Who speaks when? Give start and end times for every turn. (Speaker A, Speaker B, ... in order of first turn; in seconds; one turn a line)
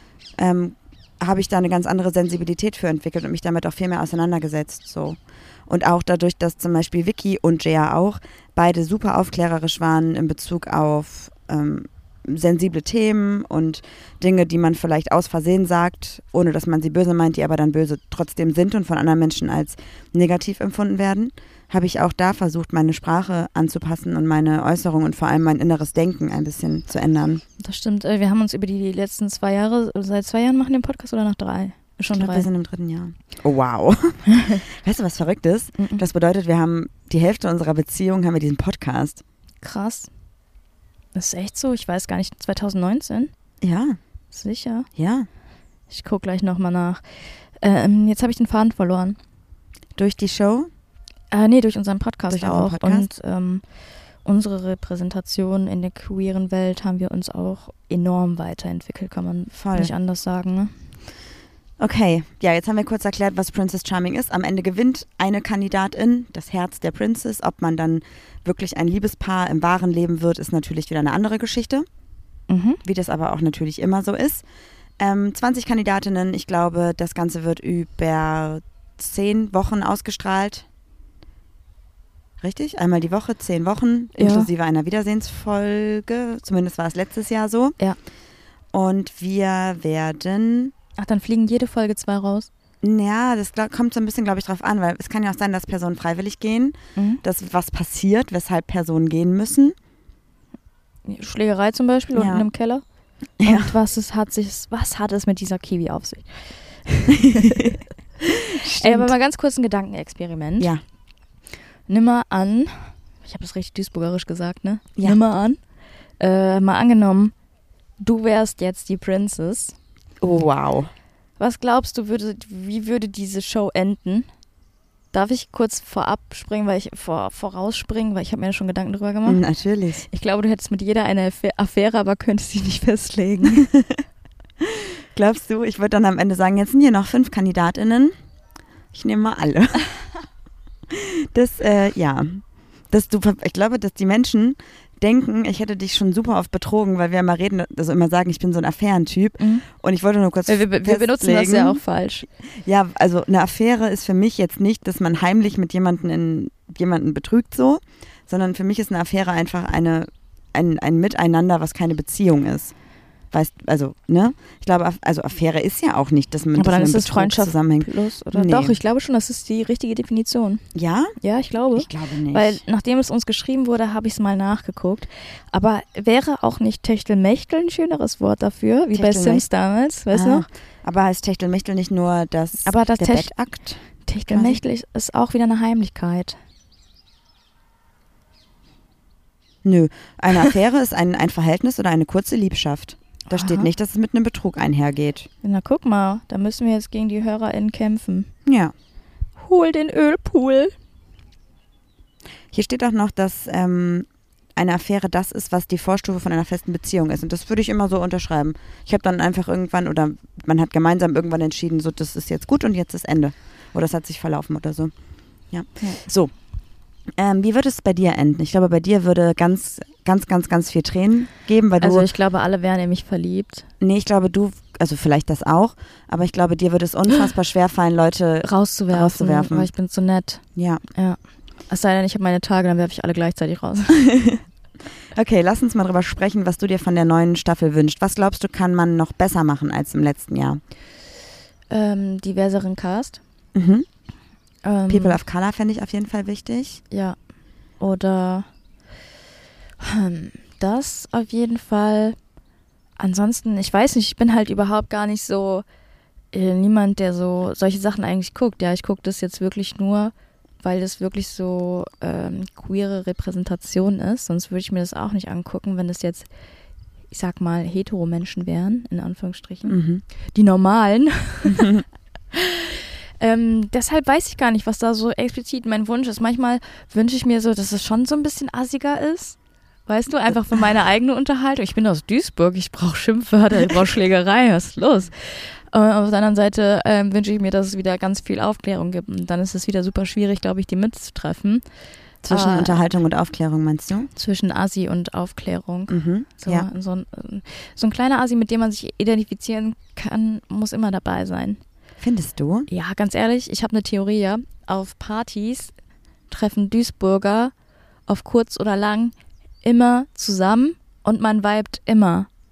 Speaker A: 0.4-27.4
Speaker B: 27.6-32.5
Speaker A: 32.1-39.2
Speaker B: 34.3-34.6
Speaker B: 35.8-36.0
Speaker B: 39.6-40.1
Speaker B: 41.1-43.3
Speaker A: 43.6-44.0
Speaker B: 44.3-44.9
Speaker A: 45.0-45.3
Speaker B: 45.9-47.0
Speaker B: 47.6-49.2
Speaker A: 50.0-50.7
Speaker B: 51.3-53.6
Speaker A: 52.3-53.1
Speaker B: 54.2-60.7
Speaker A: 59.5-59.9
Speaker A: 61.8-71.9
Speaker B: 72.5-72.8
Speaker A: 72.8-74.4
Speaker A: 75.0-80.7
Speaker A: 82.4-87.8
Speaker B: 84.2-84.5
Speaker A: 88.7-90.7
Speaker B: 91.0-92.5
Speaker A: 92.8-99.8
Speaker B: 97.0-97.2
Speaker B: 101.1-102.8
Speaker A: 102.2-102.5
Speaker A: 103.4-103.8
Speaker B: 103.4-110.7
Speaker A: 107.2-107.7
Speaker A: 108.5-109.1
Speaker B: 111.9-115.6
Speaker B: 116.2-117.3
Speaker B: 118.0-119.8
Speaker A: 120.2-120.9
Speaker B: 121.4-124.3
Speaker B: 125.1-129.4
Speaker A: 129.3-130.1
Speaker B: 130.1-133.7
Speaker A: 134.6-138.1
Speaker A: 138.9-139.9
Speaker A: 140.9-151.8
Speaker B: 149.4-149.7
Speaker B: 150.5-152.3
Speaker A: 152.5-162.7
Speaker A: 163.3-168.8
Speaker B: 166.6-170.6
Speaker A: 170.7-171.2
Speaker B: 171.2-180.5
Speaker A: 171.8-172.6
Speaker A: 178.9-179.4
Speaker A: 180.1-184.6
Speaker B: 182.6-183.3
Speaker B: 184.1-186.4
Speaker A: 189.6-195.3
Speaker B: 193.3-193.7
Speaker B: 195.4-198.3
Speaker A: 198.5-198.7
Speaker B: 199.4-200.7
Speaker A: 202.5-214.9
Speaker A: 215.5-216.3
Speaker A: 217.2-222.1
Speaker B: 221.8-223.7
Speaker A: 223.8-229.7
Speaker B: 228.4-230.4
Speaker A: 230.6-230.8
Speaker B: 230.9-234.1
Speaker A: 233.9-234.4
Speaker A: 235.1-240.6
Speaker B: 241.7-243.2
Speaker A: 243.6-243.9
Speaker B: 244.6-245.2
Speaker A: 244.9-246.8
Speaker B: 246.9-247.2
Speaker B: 247.8-248.5
Speaker B: 249.8-252.2
Speaker B: 253.0-255.7
Speaker B: 256.3-266.3
Speaker B: 267.1-269.8
Speaker A: 269.7-270.0
Speaker B: 270.3-271.7
Speaker A: 271.5-271.8
Speaker B: 272.3-291.6
Speaker A: 292.2-294.1
Speaker B: 292.3-292.9
Speaker B: 294.1-301.6
Speaker A: 295.9-296.7
Speaker A: 302.0-302.7
Speaker B: 302.7-305.7
Speaker B: 306.3-307.5
Speaker B: 308.1-312.3